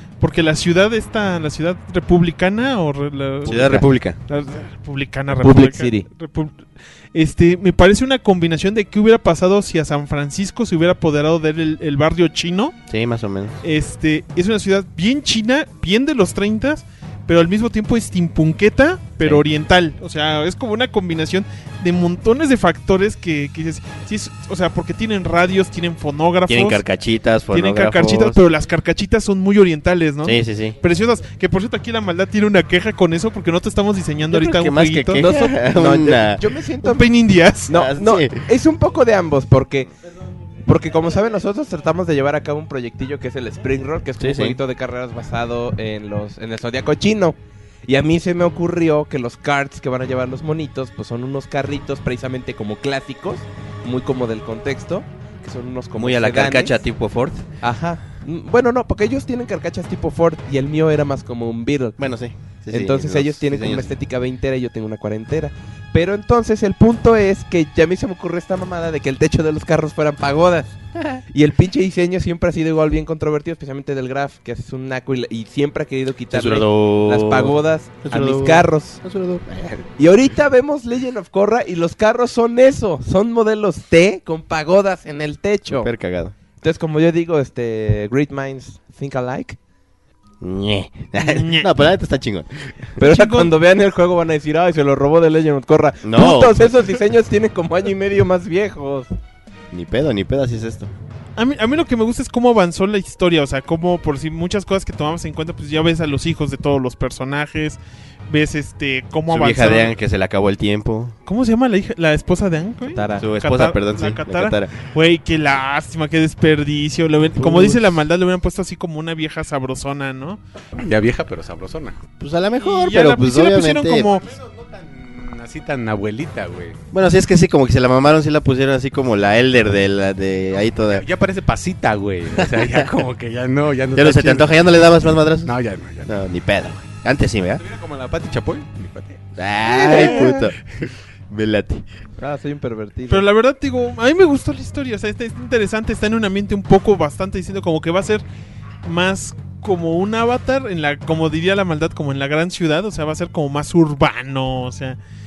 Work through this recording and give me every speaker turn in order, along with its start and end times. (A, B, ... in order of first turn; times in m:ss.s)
0:00.2-0:12.8 A
0:03.5-0:04.2 B
0:03.5-0:03.8 C
0:05.4-0:06.1 C
0:12.9-0:13.6 B
0:13.6-0:26.8 A
0:26.5-0:28.4 B
0:27.5-0:35.2 A
0:30.2-0:30.8 B
0:34.3-0:36.4 B
0:35.2-0:37.1 C
0:36.8-0:37.7 A
0:37.7-0:39.9 C
0:37.7-0:38.4 B
0:40.6-0:56.8 C
0:44.2-0:44.6 B
0:56.0-0:57.4 B
0:57.6-1:02.0 C
1:02.0-1:03.9 B
1:02.7-1:10.8 C
1:11.3-1:19.0 C
1:16.3-1:19.9 B
1:20.0-1:25.9 C
1:25.8-1:26.3 B
1:26.6-1:29.6 C
1:30.4-1:32.7 B
1:31.2-1:31.7 A
1:33.0-1:39.1 C
1:33.0-1:33.5 A
1:36.0-1:36.7 B
1:39.7-1:40.9 B
1:41.4-1:50.0 A
1:49.3-1:51.2 B
1:51.3-2:00.4 A
1:52.9-1:53.3 C
1:53.2-1:54.7 B
1:57.4-1:57.8 B
2:00.8-2:02.0 D
2:02.2-2:04.1 B
2:02.6-2:04.3 A
2:04.2-2:06.8 D
2:06.9-2:11.1 B
2:10.9-2:14.6 D
2:12.4-2:13.0 B
2:13.9-2:15.5 B
2:15.4-2:16.2 D
2:16.1-2:17.6 B
2:17.6-2:19.2 D
2:19.4-2:20.6 B
2:19.6-2:20.5 C
2:21.3-2:21.8 B
2:22.2-2:23.3 C
2:23.1-2:28.2 A
2:28.8-2:35.0 A